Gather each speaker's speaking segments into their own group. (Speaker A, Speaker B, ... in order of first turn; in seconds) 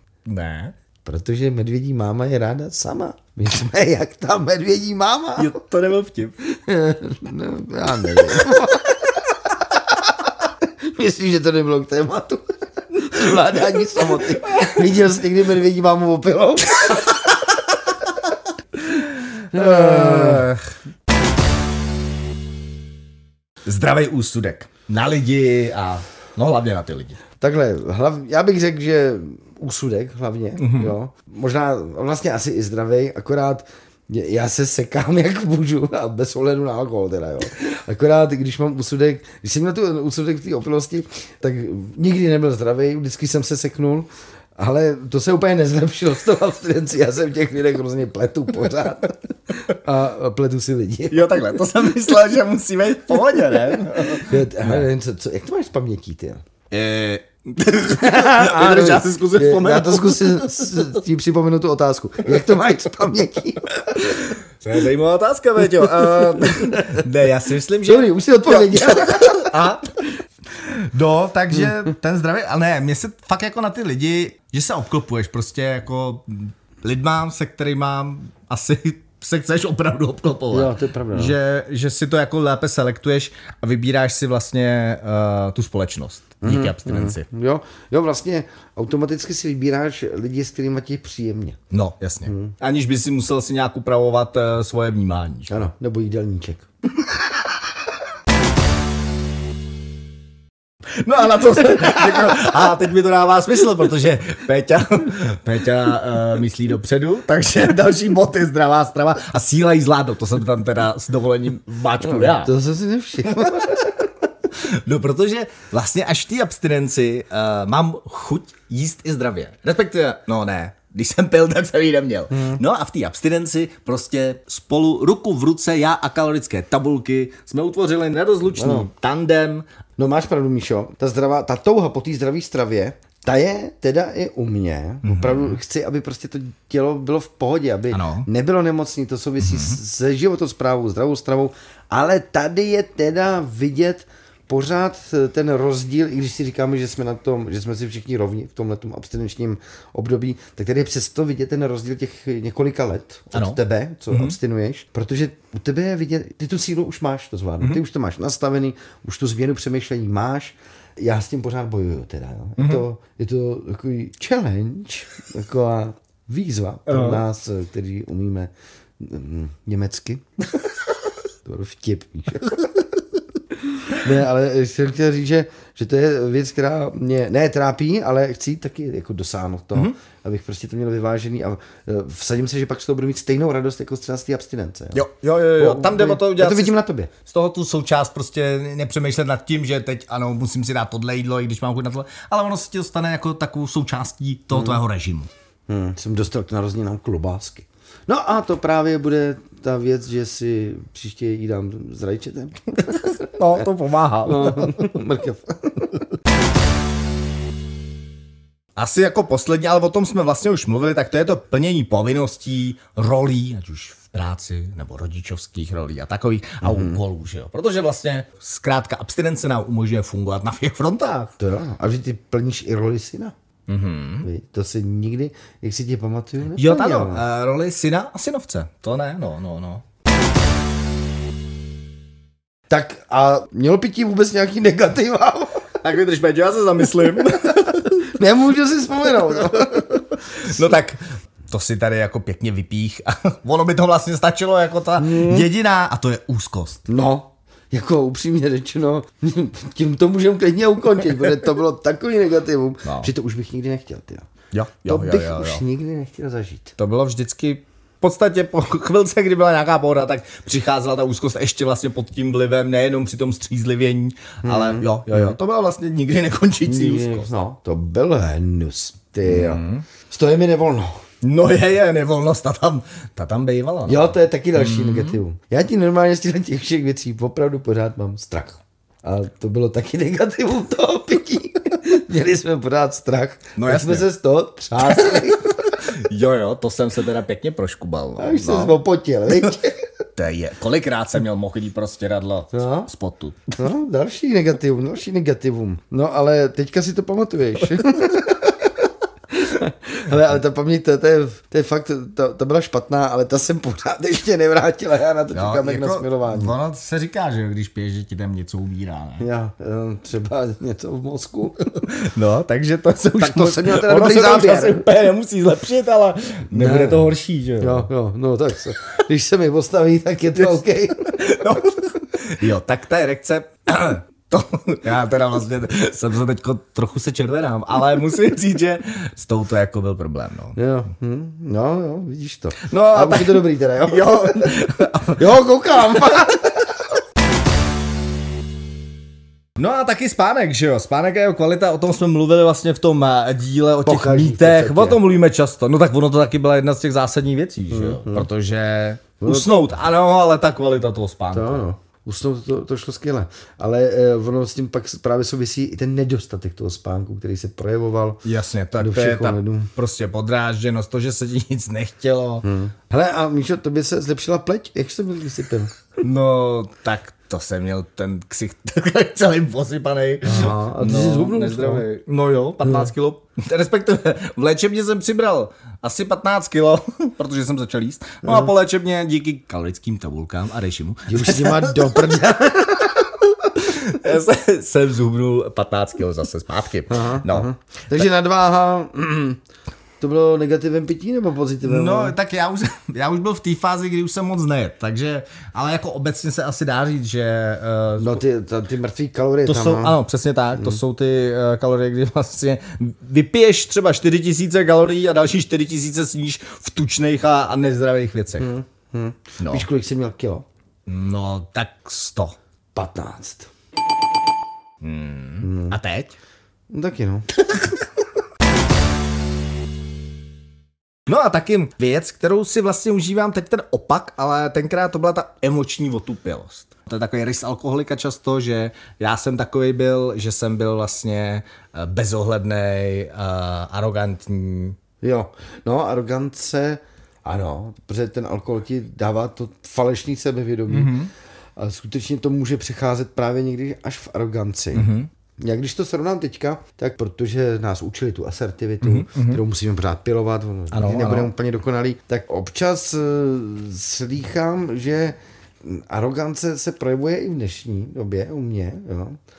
Speaker A: 0.2-0.7, 5.4-6.3, 14.2-14.8, 19.2-20.7, 23.6-27.2, 30.6-30.9, 51.1-54.9, 56.7-60.9, 64.6-70.0, 70.5-87.2, 91.7-95.7, 100.9-112.5, 113.3-113.7, 114.5-129.6, 135.0-135.6, 137.9-138.3, 139.4-139.8, 153.3-153.6, 154.1-154.4, 162.6-162.8, 166.9-167.2, 184.9-195.3, 203.3-204.9, 208.8-221.3, 223.7-224.3, 226.5-229.8, 235.8-238.1, 239.4-246.8, 252.8-253.1, 254.5-255.6, 256.8-267.3, 269.2-269.8, 271.2-275.2, 283.6-284.1, 284.8-288.8, 290.1-293.5, 305.3-309.2, 311.8-317.9, 320.4-330.6, 332.6-335.3, 339.6-351.6, 358.2-362.4, 366.0-382.1, 383.6-387.5, 391.6-398.2, 399.4-408.5, 409.4-409.6, 410.9-412.4, 414.8-416.1, 421.1-434.8, 440.7-441.1, 444.7-445.1, 448.8-449.4, 450.7-451.3
Speaker B: 1.0-5.5, 6.5-17.3, 19.5-20.5, 27.4-51.5, 54.0-56.4, 57.9-64.3, 66.0-67.0, 67.8-69.5, 80.5-81.3, 86.4-91.6, 92.2-92.5, 95.5-96.7, 112.0-114.0, 122.3-122.6, 128.5-128.9, 130.0-170.2, 171.4-172.7, 173.8-185.0, 185.6-187.1, 194.5-194.8, 195.7-203.3, 204.2-206.0, 216.6-217.0, 221.4-223.3, 224.2-227.2, 232.7-235.6, 238.0-240.0, 245.0-245.5, 246.9-254.3, 254.8-256.8, 264.4-265.4, 266.6-270.9, 273.9-285.7, 288.2-289.8, 292.5-292.9, 293.6-298.7, 299.3-306.6, 309.2-311.7, 313.1-314.9, 316.5-321.2, 330.6-334.5, 335.1-336.7, 343.8-345.0, 347.7-348.3, 349.2-349.5, 351.3-358.2, 358.8-359.7, 362.4-365.7, 370.2-371.8, 372.6-372.9, 378.2-378.5, 381.1-383.1, 386.9-389.4, 390.0-392.1, 398.0-399.9, 408.4-410.4, 412.7-413.5, 415.4-415.8, 416.7-417.3, 435.0-441.0, 441.6-459.2